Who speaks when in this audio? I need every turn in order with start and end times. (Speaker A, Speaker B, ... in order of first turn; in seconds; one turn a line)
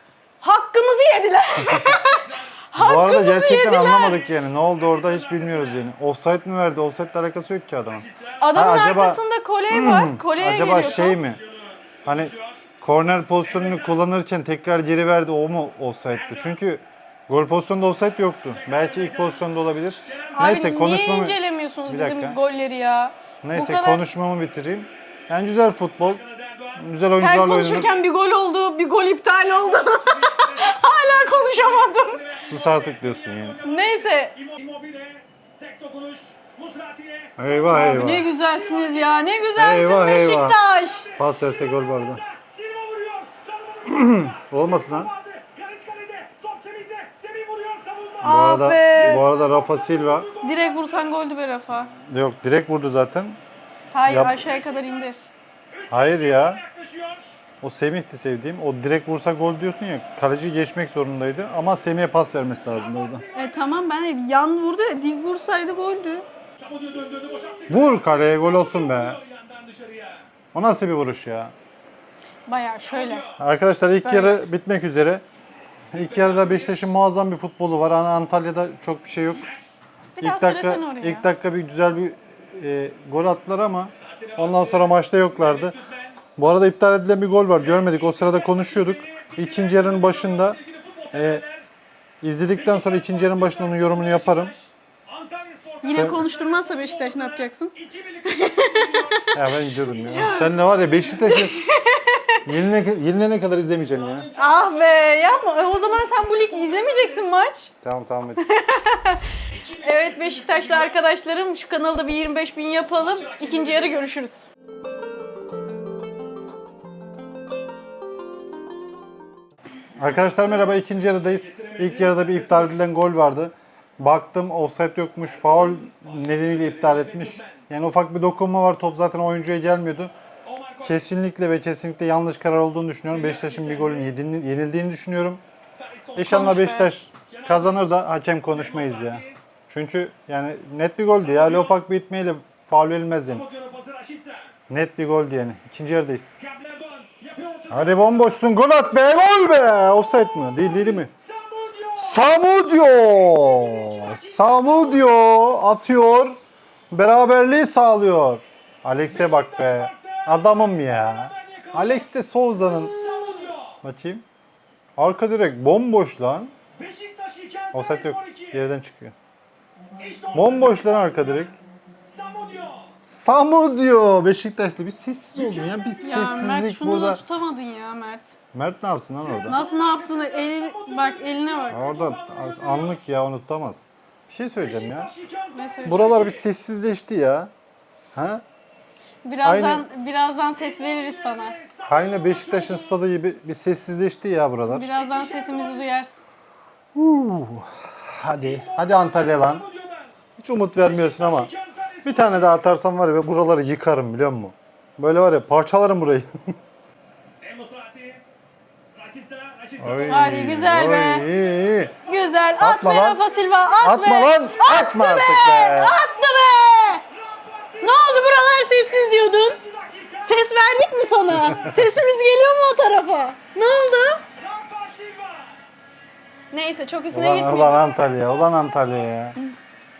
Speaker A: 0.4-4.2
Speaker B: 2.2-2.5
Speaker C: 2.8-11.4
Speaker B: 4.1-5.9
Speaker B: 7.9-8.5
Speaker A: 8.4-11.2
Speaker B: 10.5-12.7
Speaker C: 12.0-22.4
Speaker B: 13.4-14.0
Speaker B: 16.1-16.6
Speaker B: 18.5-19.4
Speaker B: 20.0-20.5
Speaker A: 20.3-24.0
Speaker C: 23.4-26.2
Speaker B: 25.9-26.8
Speaker C: 26.8-27.9
Speaker A: 27.2-32.2
Speaker B: 29.4-37.6
Speaker C: 32.4-33.6
Speaker A: 33.6-34.4
Speaker C: 37.4-38.3
Speaker A: 37.7-41.1
Speaker B: 38.4-39.2
Speaker C: 39.5-40.6
Speaker B: 40.5-51.1
Speaker C: 41.2-42.2
Speaker C: 43.9-45.1
Speaker C: 48.2-50.3
Speaker A: 48.2-49.2
Speaker A: 50.4-51.9
Speaker C: 52.1-53.4
Speaker A: 53.9-55.1
Speaker C: 54.0-54.4
Speaker B: 54.3-57.4
Speaker C: 55.9-56.6
Speaker C: 57.6-63.2
Speaker B: 62.7-63.7
Speaker A: 63.3-66.2
Speaker B: 66.6-70.3
Speaker C: 67.7-69.2
Speaker C: 70.5-71.5
Speaker A: 72.5-73.3
Speaker B: 72.8-73.4
Speaker C: 73.3-75.2
Speaker A: 74.0-74.4
Speaker C: 75.9-79.5
Speaker B: 76.0-76.8
Speaker A: 80.2-81.3
Speaker C: 80.2-85.8
Speaker B: 84.0-86.2
Speaker C: 86.3-90.6
Speaker B: 87.6-91.7
Speaker C: 91.1-91.4
Speaker C: 92.2-94.5
Speaker B: 92.5-101.4
Speaker A: 95.8-97.7
Speaker C: 95.9-96.2
Speaker A: 98.2-99.2
Speaker C: 99.3-101.6
Speaker A: 99.9-100.6
Speaker A: 101.1-102.4
Speaker C: 102.5-104.3
Speaker B: 103.9-107.3
Speaker A: 104.3-107.7
Speaker C: 107.8-108.4
Speaker A: 108.4-109.2
Speaker B: 109.5-111.1
Speaker A: 109.8-114.4
Speaker B: 113.0-114.0
Speaker C: 120.0-130.1
Speaker B: 120.2-120.8
Speaker B: 121.3-122.8
Speaker B: 125.2-127.6
Speaker B: 130.4-131.0
Speaker C: 130.8-135.4
Speaker B: 133.0-134.1
Speaker B: 135.8-136.4
Speaker C: 136.2-143.4
Speaker A: 136.2-136.9
Speaker B: 137.3-137.8
Speaker B: 138.5-139.4
Speaker B: 141.1-141.8
Speaker B: 143.3-144.5
Speaker C: 144.7-146.3
Speaker B: 146.4-148.4
Speaker C: 147.7-151.1
Speaker B: 150.9-152.2
Speaker C: 151.9-156.4
Speaker B: 153.4-155.0
Speaker C: 156.9-163.2
Speaker B: 159.1-162.1
Speaker B: 162.9-163.8
Speaker C: 163.8-164.2
Speaker C: 165.0-166.5
Speaker B: 166.8-168.6
Speaker C: 167.7-169.1
Speaker B: 170.0-171.4
Speaker C: 170.3-171.6
Speaker B: 172.1-172.9
Speaker C: 173.0-177.2
Speaker B: 175.3-176.4
Speaker A: 176.0-178.3
Speaker C: 178.5-179.6
Speaker B: 179.2-183.0
Speaker A: 179.5-181.8
Speaker C: 181.7-185.1
Speaker B: 184.6-186.4
Speaker A: 185.5-186.2
Speaker C: 185.8-187.5
Speaker C: 188.1-188.4
Speaker A: 189.2-191.6
Speaker C: 189.4-189.9
Speaker B: 190.6-193.0
Speaker C: 191.9-194.9
Speaker A: 194.7-196.2
Speaker B: 194.9-195.9
Speaker C: 196.9-199.7
Speaker B: 198.4-200.1
Speaker C: 200.4-201.5
Speaker B: 200.8-202.6
Speaker C: 202.0-206.3
Speaker B: 207.4-208.2
Speaker B: 208.9-210.4
Speaker C: 209.8-211.9
Speaker A: 210.1-211.3
Speaker B: 211.7-212.6
Speaker A: 212.0-217.0
Speaker C: 212.6-213.2
Speaker C: 213.8-216.0
Speaker B: 217.1-220.4
Speaker A: 217.8-219.6
Speaker A: 220.2-224.2
Speaker C: 221.3-221.7
Speaker B: 224.4-225.6
Speaker A: 226.5-228.0
Speaker C: 227.1-229.3